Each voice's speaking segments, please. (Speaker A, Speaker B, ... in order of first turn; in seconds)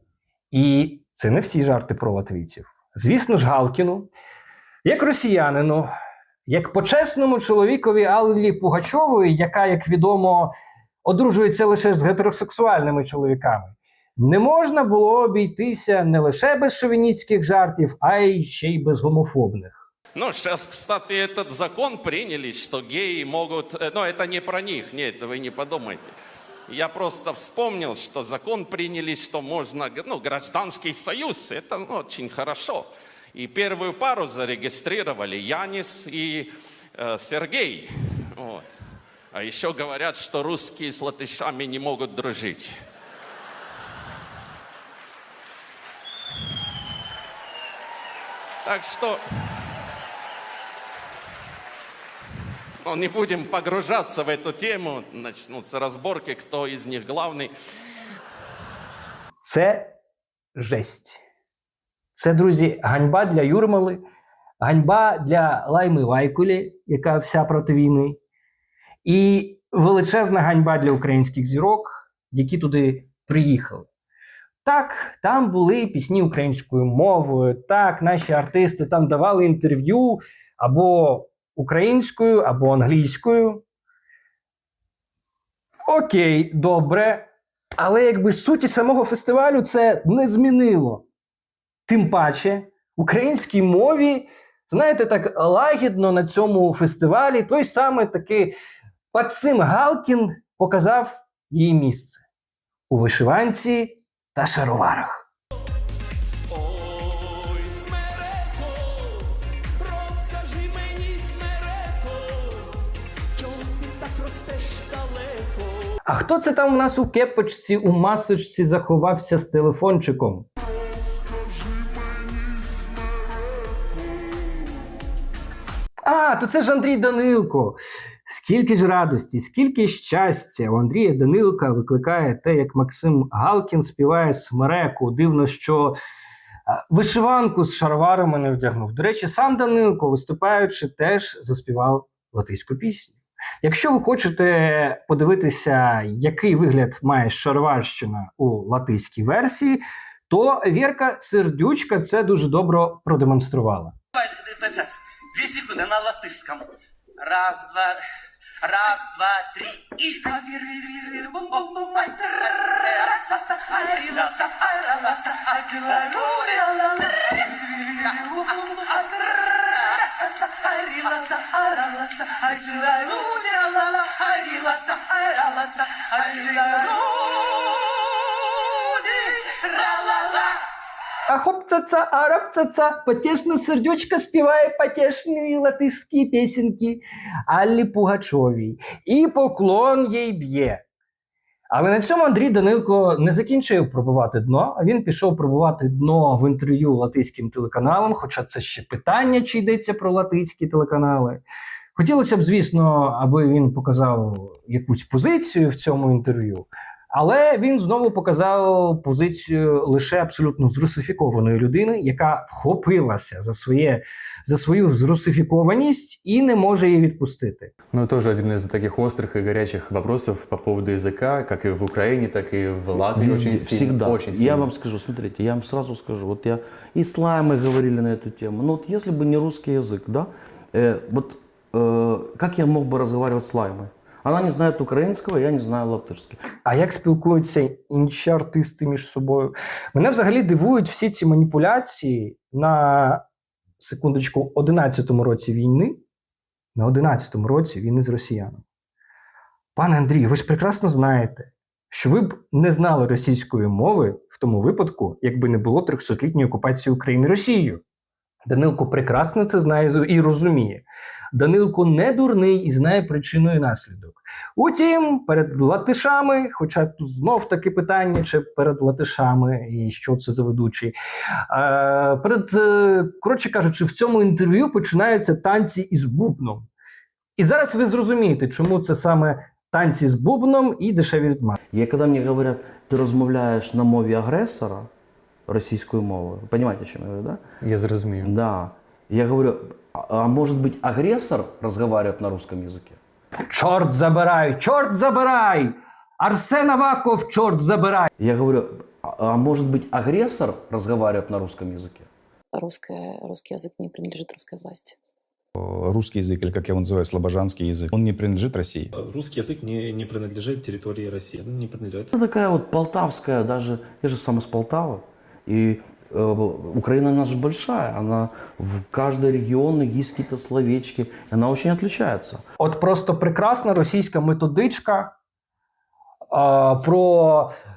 Speaker A: 0.5-4.1, 4.8-5.9, 6.5-10.5, 11.0-19.8, 59.4-59.9, 60.5-61.2, 62.1-64.0, 64.6-68.2, 69.0-73.9, 74.6-83.6, 85.9-91.0, 91.9-98.5, 99.1-102.2, 102.9-105.2, 116.0-120.5, 126.0-136.0, 136.7-153.9, 181.3-190.8, 191.7-201.4, 201.9-217.7, 236.6-243.2, 243.8-246.0, 246.7-248.6, 249.8-257.8, 258.4-270.9, 271.5-276.7, 277.4-281.6, 293.5-298.1, 322.6-325.1, 326.3-327.5
Speaker B: 20.1-26.1, 26.7-38.8, 39.3-42.8, 48.6-49.2, 52.8-57.5, 106.8-108.6, 110.0-112.0, 113.4-115.5
Speaker C: 154.2-156.7, 157.2-158.0, 158.6-169.8, 170.6-177.8, 178.7-180.6
Speaker D: 217.9-224.7, 287.6-288.3
Speaker E: 223.0-236.4, 281.7-284.9, 285.5-287.4, 288.2-293.0, 298.2-302.1, 312.1-322.4
Speaker F: 302.5-304.9
Speaker G: 305.6-308.9
Speaker H: 308.9-312.1